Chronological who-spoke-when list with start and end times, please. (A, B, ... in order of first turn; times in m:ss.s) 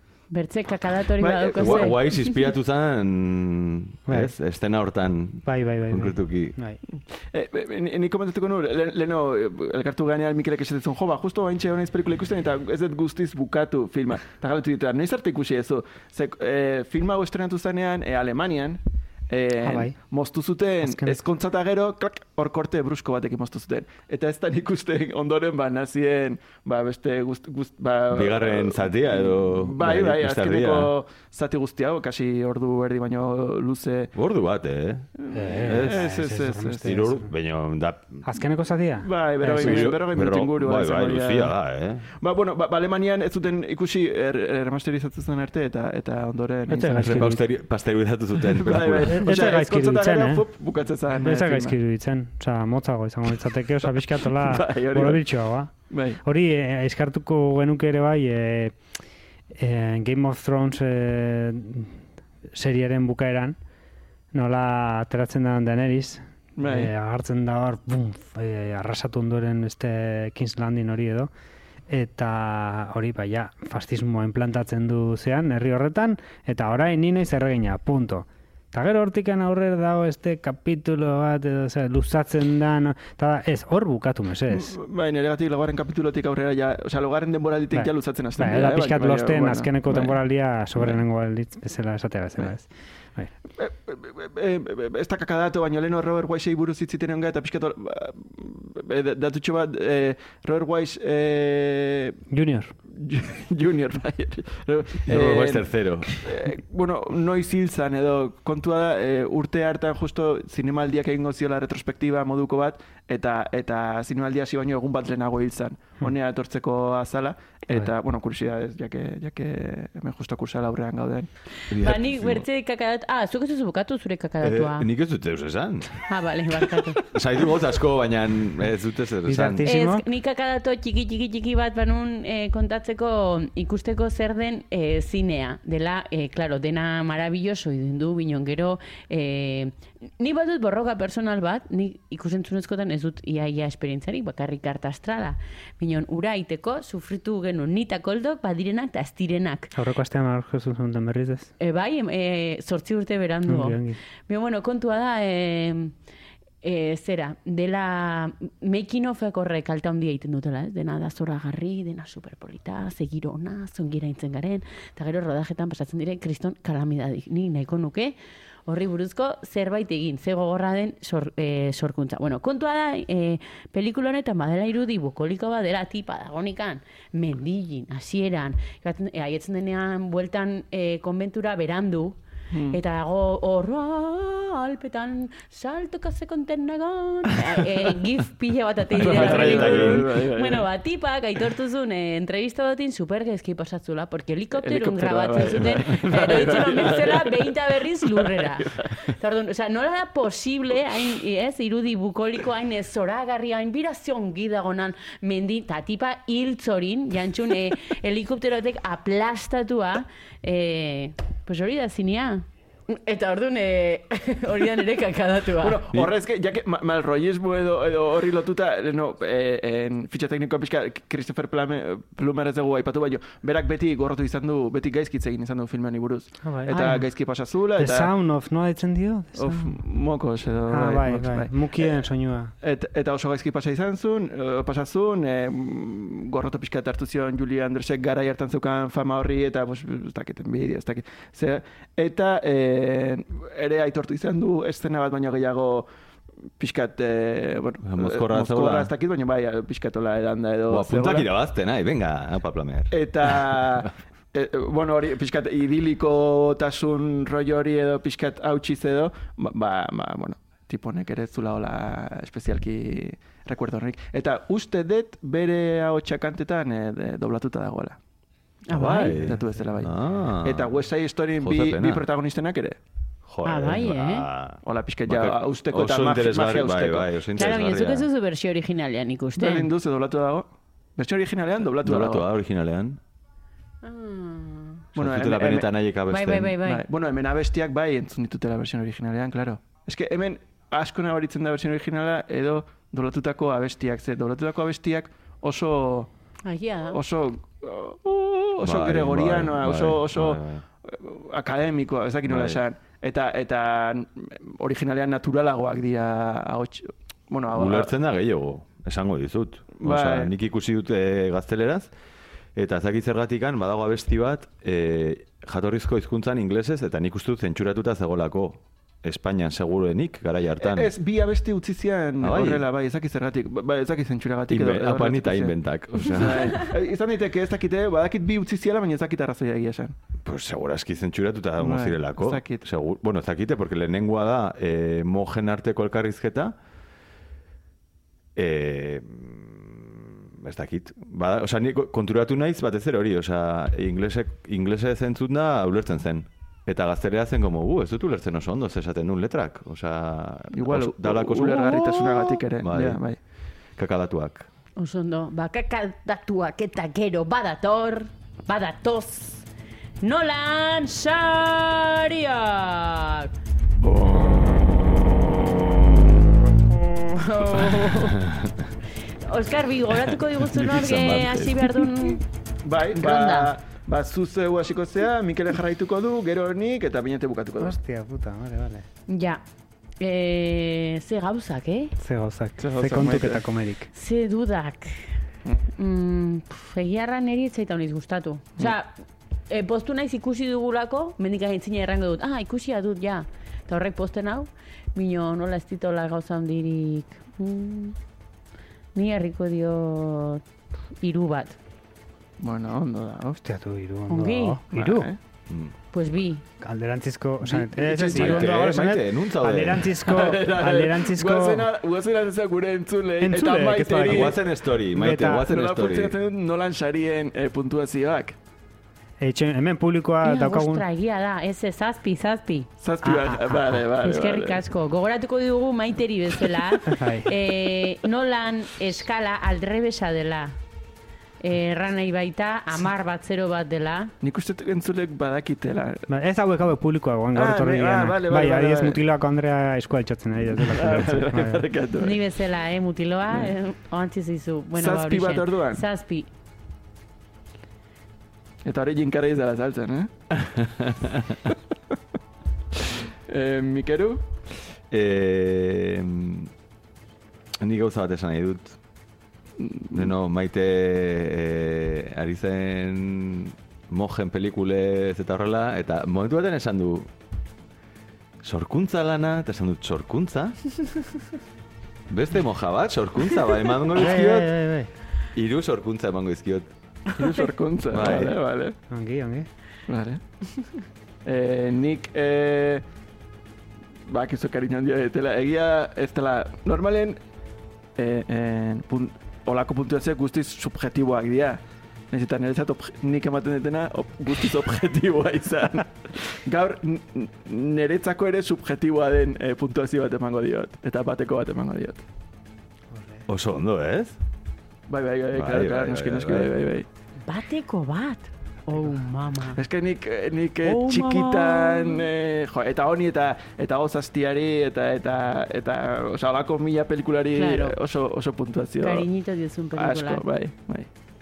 0:00.3-0:02.2 A
0:01.2-0:01.9 B
0:01.6-0:06.6 C
0:04.1-0:04.3 D
0:05.4-0:06.8 D
0:06.9-0:34.1 B
0:19.6-0:20.0 D
0:20.8-0:21.2 D
0:28.1-0:30.9 C
0:34.2-0:36.2 C
0:35.2-0:37.0 B
0:35.3-0:37.3 D
0:36.8-0:38.3 C
0:38.2-0:40.0 D
0:39.0-0:41.6 B
0:39.6-0:42.1 C
0:42.2-0:47.2 B
0:46.7-0:47.4 D
0:46.8-0:49.3 C
0:48.5-0:51.8 B
0:49.2-0:50.4 D
0:51.2-0:59.0 D
0:54.2-0:55.2 B
0:55.8-0:56.2 B
0:59.5-1:02.0 D
1:02.5-1:03.6 D
1:04.3-1:11.3 D
1:06.6-1:06.9 B
1:11.9-1:24.8 D
1:24.5-1:30.2 B
1:27.7-1:33.3 D
1:33.5-1:42.2 B
1:42.3-1:42.8 D
1:42.9-2:01.3 B
1:45.1-1:46.2 C
2:01.7-2:04.9 A
2:01.7-2:02.4 C
2:04.4-2:06.1 C
2:06.1-2:07.0 A
2:07.1-2:09.6 C
2:09.3-2:10.0 D
2:09.6-2:29.7 A
2:29.8-2:31.5 D
2:31.6-2:35.9 A
2:33.5-2:34.0 D
2:36.6-3:02.2 A
3:02.5-3:02.8 B
3:02.7-3:35.8 A
3:09.0-3:10.1 C
3:09.0-3:10.7 B
3:14.6-3:17.5 B
3:18.1-3:19.0 B
3:35.6-3:48.1 B
3:46.4-3:47.1 D
3:47.8-3:49.8 D
3:49.4-3:52.0 B
3:50.7-3:52.5 D
3:52.6-4:05.9 B
4:06.6-4:11.3 B
4:07.9-4:08.9 C
4:10.7-4:13.6 C
4:12.9-4:28.0 B
4:28.7-4:29.2 A
4:28.7-4:30.8 C
4:28.7-4:32.8 B
4:31.4-4:32.0 C
4:33.3-4:38.1 C
4:33.4-4:34.3 A
4:34.6-4:37.1 B
4:37.4-4:39.7 A
4:39.4-4:42.3 B
4:41.8-4:43.0 C
4:43.8-4:44.9 A
4:45.0-4:46.6 C
4:45.0-4:45.7 B
4:46.1-4:46.8 A
4:46.6-4:56.1 B
4:56.4-4:57.0 A
4:56.9-5:07.9 B
4:58.6-5:00.6 C
5:02.2-5:02.6 C
5:07.5-5:11.9 C
5:09.8-5:10.3 B
5:12.6-5:20.9 C
5:20.6-5:30.0 B
5:22.2-5:22.6 C
5:24.5-5:26.7 C
5:30.2-5:36.6 C
5:31.6-5:32.6 B
5:38.4-5:53.0 C
5:50.5-5:53.2 B
5:53.8-5:54.5 C
5:54.8-5:59.5 A
6:00.0-6:03.3 A
6:03.8-6:06.0 B
6:06.8-6:08.2 A
6:08.0-6:08.6 C
6:09.2-6:12.2 A
6:10.5-6:11.9 C
6:12.6-6:17.8 B
6:12.9-6:13.5 A
6:17.6-6:18.9 D
6:19.1-6:19.4 A
6:20.0-6:21.9 A
6:22.0-6:23.9 D
6:22.6-6:23.4 B
6:23.9-6:25.2 A
6:25.8-6:28.9 A
6:29.5-6:38.0 A
6:39.0-6:40.4 A
6:41.0-6:41.6 A
6:42.4-6:43.4 B
6:43.4-6:45.1 D
6:44.1-6:44.6 A
6:44.7-6:45.2 B
6:45.5-6:45.7 C
6:45.9-6:46.4 A
6:46.6-6:51.7 D
6:47.5-6:48.7 B
6:48.1-6:50.2 C
6:50.0-6:54.4 B
6:53.2-6:55.5 D
6:54.0-6:56.2 C
6:55.3-6:58.4 B
6:59.2-7:00.8 D
7:00.2-7:02.7 A
7:02.8-7:04.6 B
7:03.0-7:03.8 D
7:03.9-7:10.6 A
7:06.9-7:07.3 D
7:11.4-7:14.1 A
7:14.2-7:16.1 B
7:16.1-7:21.7 D
7:17.4-7:19.0 B
7:20.5-7:22.2 B
7:22.0-7:26.3 A
7:24.7-7:25.8 B
7:28.6-7:30.1 B
7:30.4-7:31.4 C
7:33.3-7:34.3 B
7:34.9-7:36.5 C
7:37.6-7:38.8 C
7:39.6-7:40.1 B
7:39.9-7:47.1 C
7:48.4-7:50.8 C
7:52.1-7:54.6 C
7:53.9-7:54.9 D
7:55.3-7:56.7 C
7:57.1-7:58.8 B
7:57.9-7:58.3 C
7:58.9-7:59.5 D
7:59.9-8:00.2 B
8:01.2-8:02.8 B
8:04.1-8:07.2 B
8:08.0-8:22.0 B
8:22.9-8:23.2 D
8:23.3-8:24.2 C
8:24.9-8:26.9 B
8:25.3-8:26.5 C
8:27.3-8:29.6 A
8:29.5-8:39.1 B
8:30.6-8:32.1 A
8:37.3-8:37.8 A
8:38.8-8:40.2 A
8:39.8-8:40.9 B